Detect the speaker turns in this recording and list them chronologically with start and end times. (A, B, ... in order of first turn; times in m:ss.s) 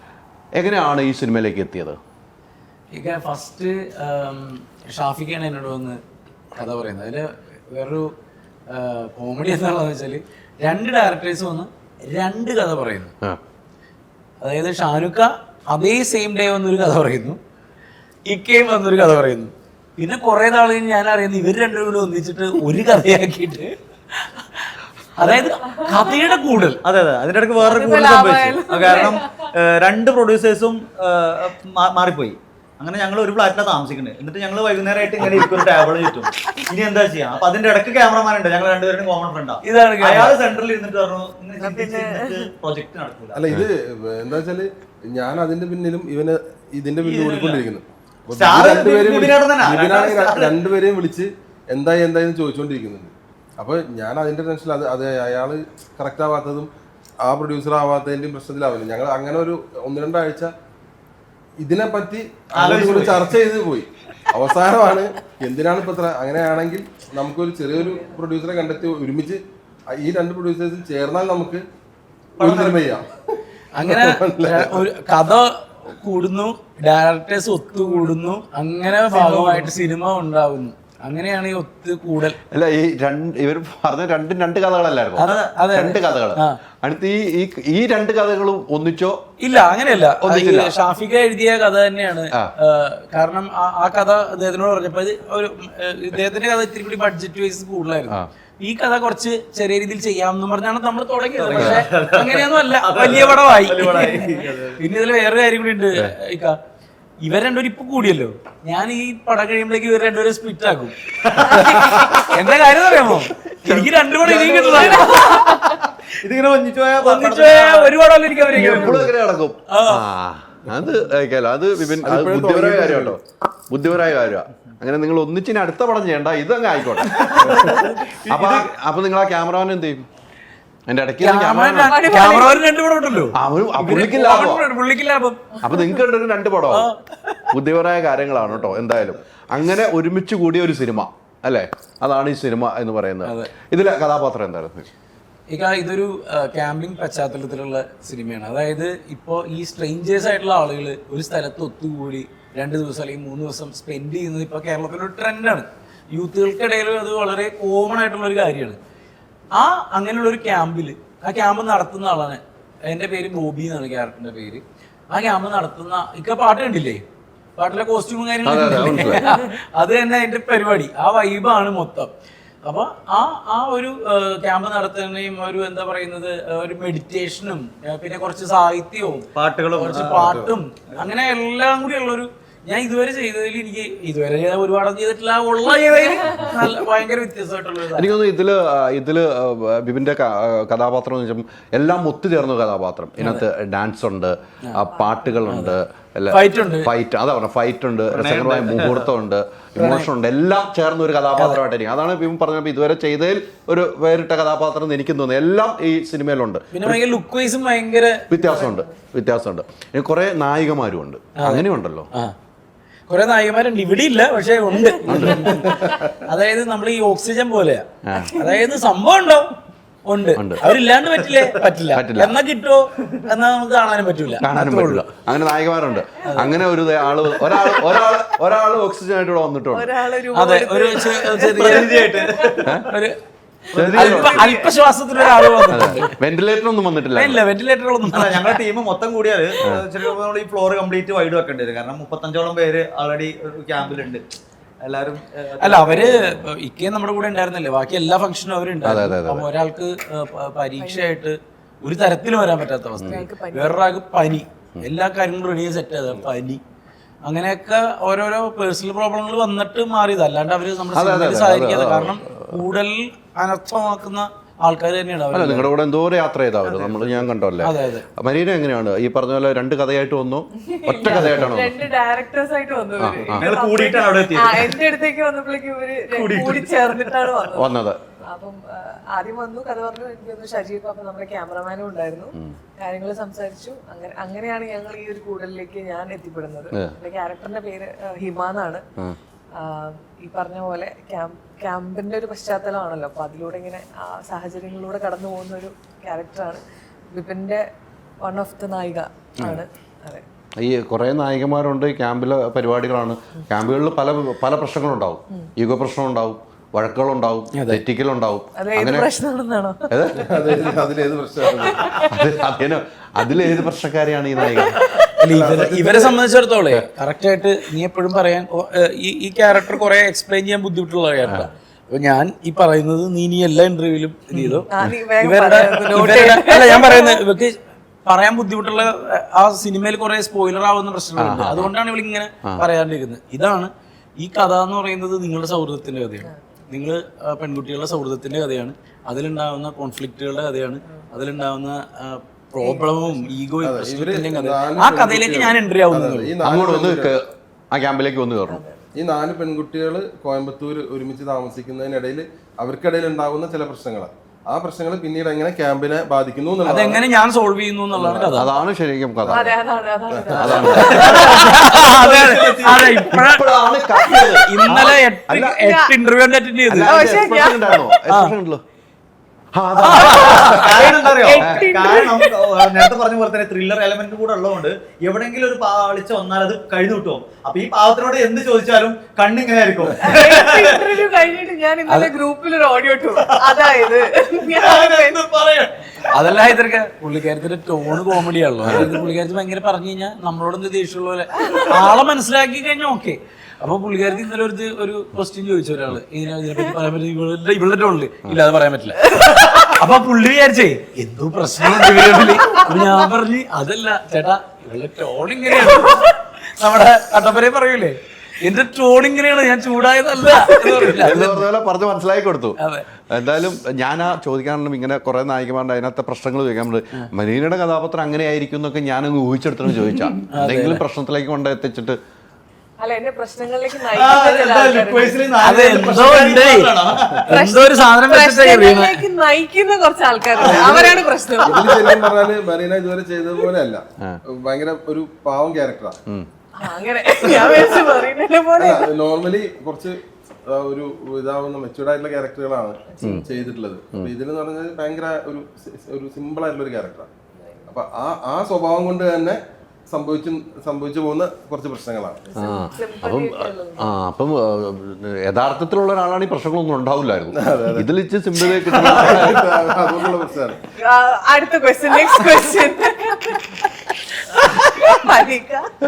0:00.6-0:02.0 A
0:02.9-0:06.0 B
0:06.6-0:08.1 B
0:08.7-0:13.1 B
0:14.4-0:17.4 B
0:18.3-0:24.6 B
0:25.2-0:26.8 B
0:26.8-0:43.4 C
0:27.6-0:29.5 D
0:39.6-0:40.4 B
0:41.6-0:42.5 D
0:43.3-0:56.7 E
0:47.0-0:47.6 C
0:48.4-0:50.4 C
0:57.2-1:00.5 E
1:01.6-1:11.6 E
1:12.4-1:13.1 E
1:13.8-1:22.4 B
1:13.8-1:14.8 E
1:22.5-1:29.2 A
1:25.2-1:26.6 B
1:25.2-1:25.5 C
1:29.4-1:46.6 B
1:30.2-1:30.7 A
1:41.6-1:41.8 A
1:41.6-1:44.8 C
1:47.2-1:51.0 B
1:51.6-1:52.2 D
1:51.7-1:55.8 B
1:54.7-1:55.9 D
1:56.2-1:57.9 C
1:57.0-1:59.1 B
1:58.5-2:10.1 A
1:59.7-2:00.0 B
2:02.0-2:03.2 E
2:07.4-2:07.8 E
2:07.8-2:08.1 B
2:10.9-2:12.4 A
2:11.2-2:15.6 B
2:11.8-2:12.6 D
2:13.4-2:14.6 A
2:15.6-2:16.9 A
2:16.7-2:17.5 B
2:17.5-2:24.9 A
2:23.2-2:23.5 B
2:25.5-2:38.8 B
2:39.5-2:47.0 B
2:47.6-2:52.1 B
2:48.4-2:49.2 A
2:52.6-3:08.1 B
2:59.4-3:00.1 C
3:08.0-3:27.0 A
3:13.2-3:13.4 B
3:14.9-3:15.3 D
3:15.5-3:15.8 B
3:16.3-3:16.9 B
3:18.1-3:18.9 C
3:19.8-3:20.1 B
3:26.7-3:28.2 B
3:28.3-3:32.1 A
3:28.4-3:28.7 D
3:31.4-3:32.3 B
3:33.1-3:39.5 B
3:35.0-3:35.6 A
3:35.6-3:36.0 E
3:38.0-3:38.4 A
3:40.1-3:45.1 B
3:40.4-3:40.6 A
3:41.9-3:42.4 A
3:44.4-3:49.9 A
3:46.3-3:46.6 B
3:49.7-3:52.7 D
3:50.3-3:52.1 B
3:51.6-3:52.7 C
3:52.9-3:53.2 B
3:53.7-3:54.7 D
3:53.7-3:54.5 A
3:53.9-3:56.1 B
3:55.7-3:57.4 A
3:57.1-3:58.6 B
3:58.2-4:04.3 C
4:04.8-4:06.0 C
4:05.6-4:16.6 B
4:08.8-4:09.4 A
4:10.8-4:11.1 D
4:13.0-4:13.8 D
4:17.2-4:25.7 B
4:20.9-4:22.5 A
4:25.3-4:31.8 A
4:26.7-4:28.1 B
4:30.6-4:37.7 D
4:33.0-4:33.5 A
4:33.3-4:34.7 C
4:36.1-4:37.2 C
4:37.5-4:38.0 A
4:38.3-4:48.8 D
4:49.6-4:57.6 D
4:58.2-5:00.2 D
5:00.6-5:09.1 A
5:07.6-5:07.8 B
5:08.6-5:09.9 D
5:09.9-5:10.4 A
5:10.2-5:11.9 E
5:11.6-5:12.1 D
5:12.0-5:15.1 A
5:14.6-5:15.0 D
5:15.2-5:46.3 B
5:15.3-5:16.2 E
5:24.4-5:24.9 A
5:24.7-5:27.2 D
5:31.2-5:31.7 A
5:42.6-5:43.2 D
5:43.6-5:47.1 E
5:46.4-5:47.2 A
5:47.7-5:48.6 A
5:48.5-5:48.8 D
5:48.9-5:57.0 E
5:56.7-5:58.5 B
5:57.9-5:58.4 E
5:58.4-5:59.6 A
5:59.3-6:01.6 D
6:00.1-6:00.8 E
6:00.4-6:01.3 A
6:00.4-6:03.5 B
6:02.0-6:02.8 C
6:03.1-6:05.6 A
6:04.0-6:06.9 B
6:05.5-6:05.9 D
6:06.7-6:08.6 A
6:06.8-6:08.0 D
6:08.1-6:08.3 B
6:09.5-6:10.7 A
6:09.8-6:10.8 B
6:10.3-6:20.8 C
6:10.4-6:12.9 D
6:11.4-6:11.7 A
6:20.0-6:25.2 D
6:21.9-6:22.1 B
6:24.5-6:25.9 C
6:26.1-6:51.5 B
6:50.8-6:52.6 A
6:52.6-6:52.9 B
6:53.1-7:02.0 A
7:00.3-7:00.8 B
7:02.8-7:05.4 D
7:04.0-7:07.2 C
7:05.4-7:09.0 B
7:07.3-7:12.0 D
7:10.4-7:16.0 E
7:16.6-7:18.9 D
7:18.6-7:27.1 E
7:22.9-7:23.6 D
7:27.4-7:27.6 D
7:27.7-7:32.2 E
7:32.2-7:33.9 D
7:32.4-7:39.5 A
7:37.3-7:37.9 E
7:38.7-7:40.6 E
7:40.8-7:43.7 D
7:44.3-7:45.7 D